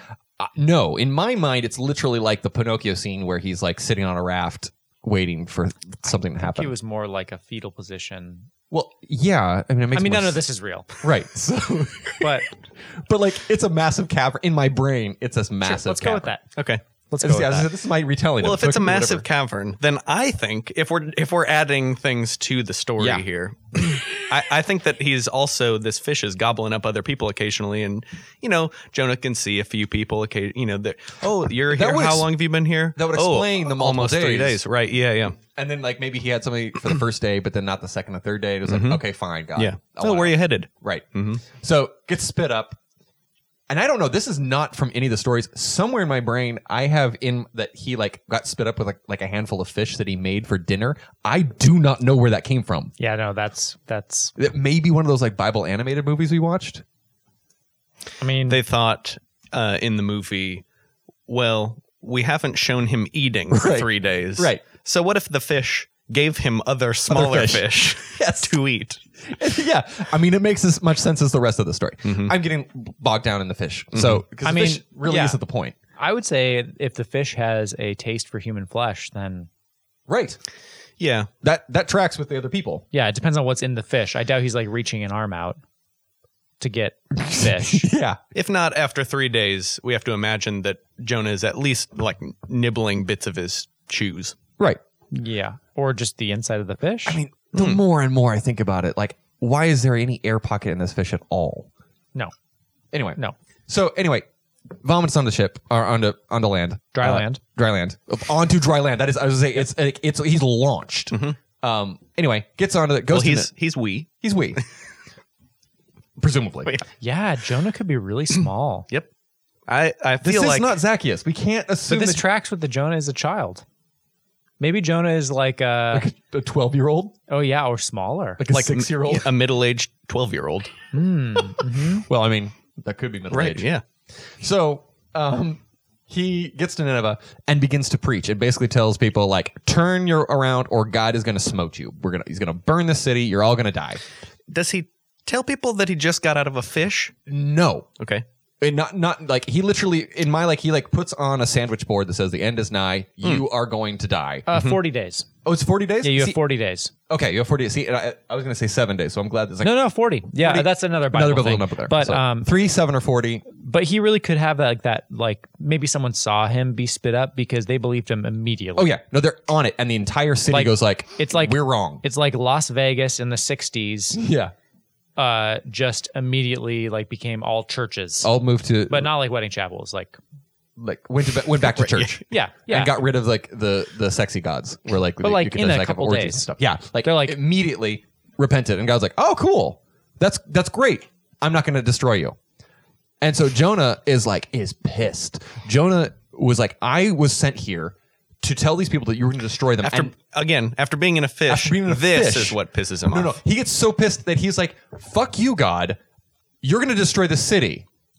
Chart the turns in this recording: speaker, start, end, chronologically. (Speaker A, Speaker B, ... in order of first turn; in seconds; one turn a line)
Speaker A: 0.4-6.7
Speaker B: 6.3-8.5
Speaker A: 8.7-10.4
Speaker B: 9.9-10.9
Speaker A: 11.0-12.3
Speaker B: 12.2-12.5
Speaker A: 13.0-16.3
Speaker B: 15.6-16.4
Speaker C: 16.6-16.8
Speaker B: 17.1-17.7
Speaker A: 17.2-19.2
Speaker C: 18.4-35.4
Speaker A: 23.0-23.2
Speaker A: 31.7-32.3
Speaker A: 33.0-34.6
Speaker A: 35.5-42.8
Speaker C: 38.7-39.0
Speaker C: 39.5-41.4
Speaker A: 43.7-52.9
Speaker B: 53.0-54.3
Speaker A: 54.4-56.8
Speaker B: 58.2-58.6
Speaker C: 58.5-60.6
Speaker C: 61.3-69.0
Speaker A: 63.5-64.6
Speaker A: 67.1-68.5
Speaker A: 69.3-75.7
Speaker C: 72.0-72.3
Speaker C: 73.9-74.2
Speaker B: 74.4-75.4
Speaker B: 76.0-79.5
Speaker A: 80.1-80.4
Speaker C: 81.0-81.3
Speaker A: 81.4-82.8
Speaker B: 82.9-85.6
Speaker B: 86.6-87.9
Speaker A: 87.2-88.2
Speaker C: 88.3-94.3
Speaker B: 95.1-97.2
Speaker A: 97.0-101.7
Speaker C: 97.5-97.8
Speaker A: 102.9-104.2
Speaker A: 104.8-113.5
Speaker B: 106.9-107.4
Speaker C: 111.1-111.4
Speaker C: 113.1-114.6
Speaker A: 114.2-114.6
Speaker A: 116.2-116.8
Speaker B: 117.0-118.9
Speaker C: 119.7-120.7
Speaker A: 120.2-122.2
Speaker B: 121.9-123.6
Speaker B: 124.6-126.1
Speaker A: 125.9-127.2
Speaker B: 127.3-128.4
Speaker A: 128.4-129.3
Speaker C: 128.5-130.7
Speaker B: 130.9-132.1
Speaker A: 132.1-144.0
Speaker C: 133.3-133.8
Speaker C: 144.5-147.1
Speaker A: 147.3-147.9
Speaker C: 148.0-148.2
Speaker A: 148.6-154.5
Speaker B: 154.5-155.3
Speaker C: 154.5-154.8
Speaker A: 155.4-156.4
Speaker B: 156.0-156.9
Speaker A: 157.1-159.7
Speaker B: 159.6-162.5
Speaker A: 160.3-163.4
Speaker B: 163.5-168.9
Speaker A: 168.8-172.0
Speaker B: 170.5-174.2
Speaker A: 174.2-174.5
Speaker B: 175.2-178.3
Speaker A: 178.2-179.1
Speaker B: 178.9-180.2
Speaker A: 180.8-192.4
Speaker C: 181.6-182.1
Speaker B: 182.3-182.9
Speaker B: 185.2-186.5
Speaker B: 187.0-187.4
Speaker A: 193.2-200.1
Speaker C: 199.8-203.4
Speaker A: 201.5-206.0
Speaker A: 206.6-207.8